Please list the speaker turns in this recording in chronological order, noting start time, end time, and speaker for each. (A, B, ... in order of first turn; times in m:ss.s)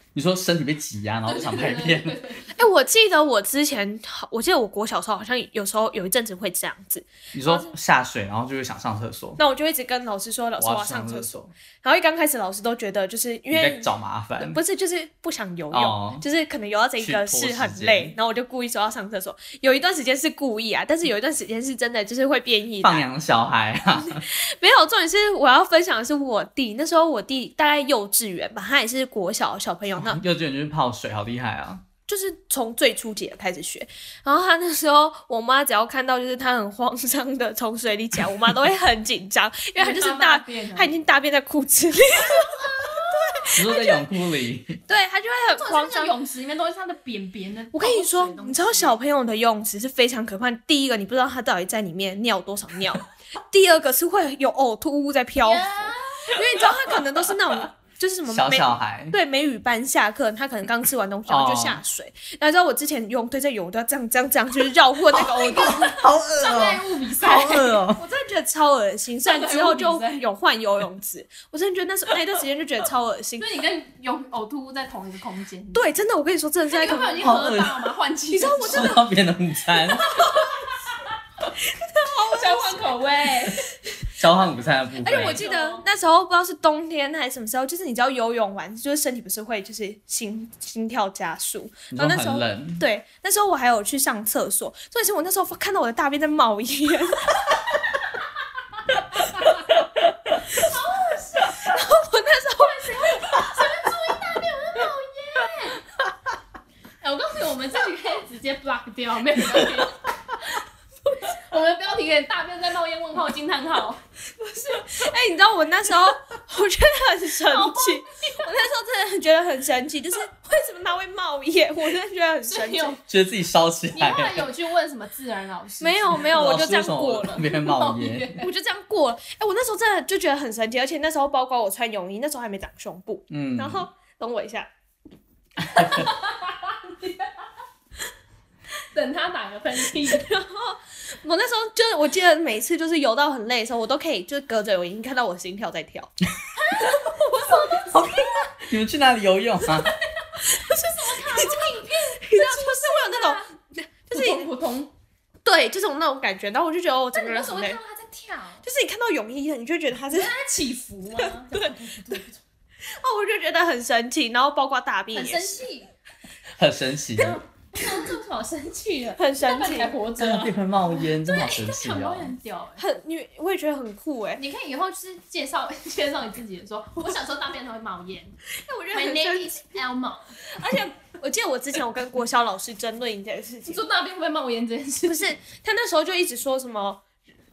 0:00.1-0:02.2 A
0:01.3-0:02.6 B
0:02.5-0:07.7 C
0:07.3-0:09.4 A
0:09.4-0:23.0 C
0:10.6-0:11.5 A
0:13.5-0:14.6 A
0:15.7-0:16.2 A
0:17.0-0:18.2 A
0:22.8-0:24.2 A
0:24.0-0:30.2 C
0:30.0-0:31.8 A
0:32.1-0:44.1 C
0:39.8-0:40.9 B
0:42.8-0:43.0 B
0:43.6-0:44.8 A
0:44.9-0:46.2 C
0:45.6-0:49.0 B
0:47.7-1:06.1 C
0:55.4-0:56.4 B
0:58.3-0:59.2 A
1:01.3-1:01.8 A
1:05.4-1:08.0 A
1:05.5-1:05.8 B
1:06.4-1:07.8 B
1:07.7-1:13.5 C
1:09.3-1:10.2 B
1:13.4-1:15.9 B
1:15.7-1:17.4 C
1:16.7-1:19.0 B
1:17.2-1:17.8 A
1:18.3-1:19.1 C
1:18.6-1:20.2 A
1:21.8-1:23.0 C
1:22.3-1:23.7 B
1:24.2-1:25.4 A
1:25.0-1:37.4 C
1:25.1-1:25.8 B
1:31.9-1:32.8 A
1:40.6-1:41.7 B
1:41.4-1:43.7 C
1:42.6-1:45.8 B
1:47.0-1:50.4 B
1:51.3-1:54.0 B
1:54.4-2:03.0 C
1:57.5-1:58.4 B
2:02.5-2:03.0 B
2:03.1-2:04.5 A
2:03.9-2:06.3 B
2:05.8-2:07.4 C
2:06.2-2:08.4 A
2:07.4-2:08.5 B
2:08.4-2:14.7 C
2:13.3-2:13.9 A
2:15.7-2:17.3 B
2:18.9-2:20.3 B
2:20.0-2:26.1 C
2:26.6-2:28.5 B
2:27.0-2:28.0 C
2:27.9-2:30.0 A
2:30.2-2:33.5 B
2:30.4-2:34.5 C
2:34.1-2:34.9 B
2:35.4-2:37.8 C
2:37.1-2:38.6 B
2:38.6-2:40.3 C
2:40.1-2:42.4 B
2:41.2-2:42.2 C
2:42.9-2:45.6 C
2:45.2-2:45.9 B
2:46.6-2:47.4 A
2:47.7-2:52.8 B
2:49.2-2:50.0 C
2:50.2-2:52.3 A
2:52.8-2:54.4 C
2:54.4-2:58.4 B
2:58.6-2:59.6 C
2:58.9-3:00.3 B
3:00.5-3:03.8 C
3:03.7-3:05.3 B
3:05.1-3:07.0 C